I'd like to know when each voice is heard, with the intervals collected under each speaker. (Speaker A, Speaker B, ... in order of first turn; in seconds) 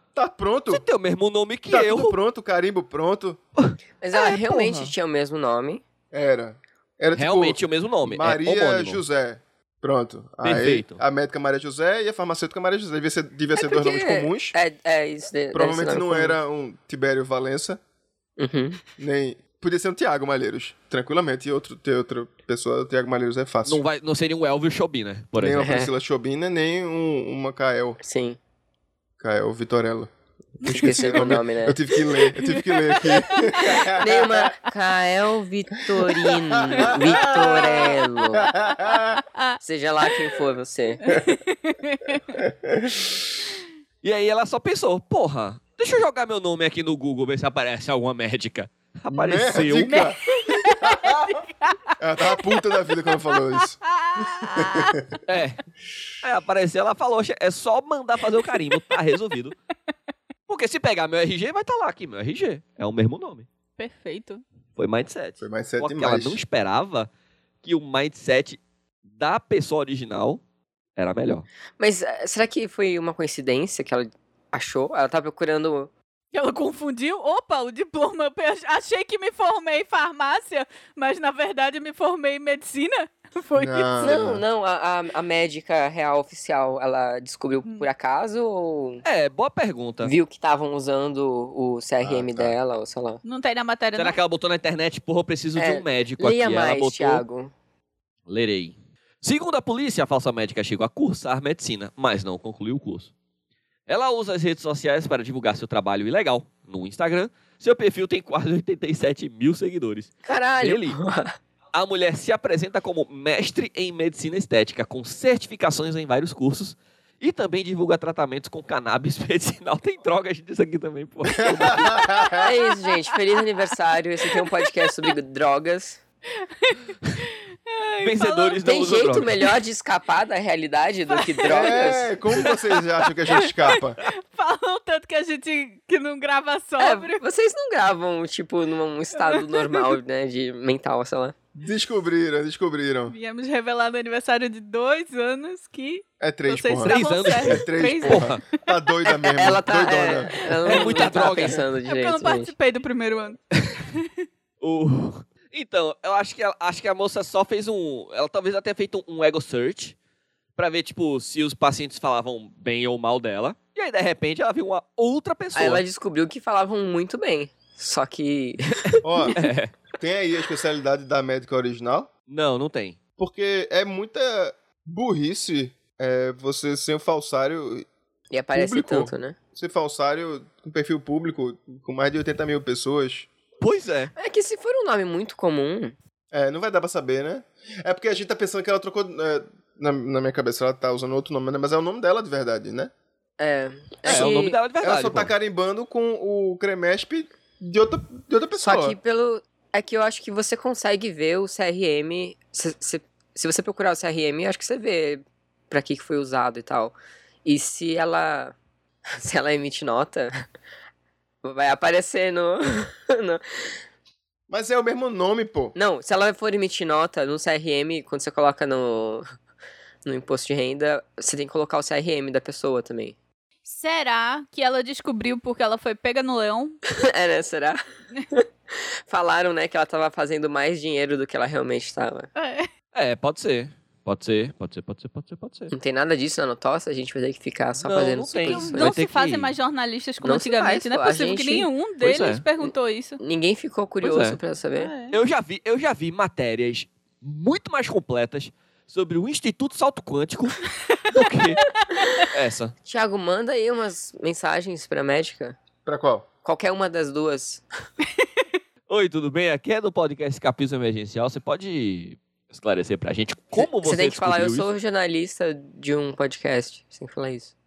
Speaker A: 0.1-0.8, 1.7-3.4, 4.5-4.9, 6.1-14.6, 15.5-17.8, 19.0-23.9, 25.4-28.0, 29.2-34.5, 36.7-37.9, 38.4-39.2, 42.4-43.2, 49.1-51.4, 52.0-55.1, 65.4-66.4, 83.6-84.4, 92.0-92.6, 121.4-122.4, 131.5-134.0, 141.6-143.2, 146.2-150.5, 169.0-169.4, 170.0-172.1, 173.2-177.9, 178.5-183.3, 186.3-192.9, 194.1-199.0, 214.5-215.8, 255.8-256.3
Speaker B: 0.7-2.2, 7.1-9.0, 10.4-11.0, 23.6-25.8, 44.0-50.0, 55.3-55.6, 56.2-59.6, 60.5-63.5, 64.8-67.1, 67.6-70.4, 71.0-71.5, 89.0-90.1, 94.0-97.2, 98.3-103.1, 103.9-111.0, 111.7-122.0, 128.0-129.4, 146.8-148.4, 150.7-151.6, 154.6-160.0, 160.6-165.8, 169.3-169.7, 172.3-173.0, 183.6-184.1, 194.0-195.3, 232.9-235.7, 237.8-239.5, 242.0-242.4, 244.0-244.4, 245.1-251.6, 252.3-252.7, 258.9-264.7
Speaker C: 4.0-5.8, 13.6-16.4, 18.4-18.8, 25.7-25.9, 28.0-28.4, 30.7-31.8, 33.9-38.6, 39.6-41.0, 71.8-75.9, 84.0-89.0, 90.0-93.2, 95.6-97.5, 110.2-111.4, 122.4-126.0, 128.6-132.1, 136.8-141.3, 149.3-152.5, 165.5-169.3, 178.3-179.4, 184.2-185.9, 193.4-194.6, 198.6-208.6, 209.2-210.3, 211.4-213.7, 215.8-219.2, 220.1-223.2, 227.0-227.8, 228.3-232.3, 235.7-238.9, 240.2-241.7, 242.6-244.9, 252.8-255.6, 256.4-257.6, 263.6-267.5
Speaker D: 32.4-33.8, 37.3-38.0, 41.1-42.4, 49.9-51.8, 53.1-53.4, 53.9-55.0, 63.8-64.4, 76.3-84.2, 93.2-94.2, 126.6-126.9, 127.7-128.6, 131.1-131.8, 132.3-132.7, 133.3-137.2, 139.2-140.0, 143.1-148.4, 150.7-151.1, 151.9-153.4, 223.7-226.8, 232.4-232.7, 238.5-243.2, 244.8-245.1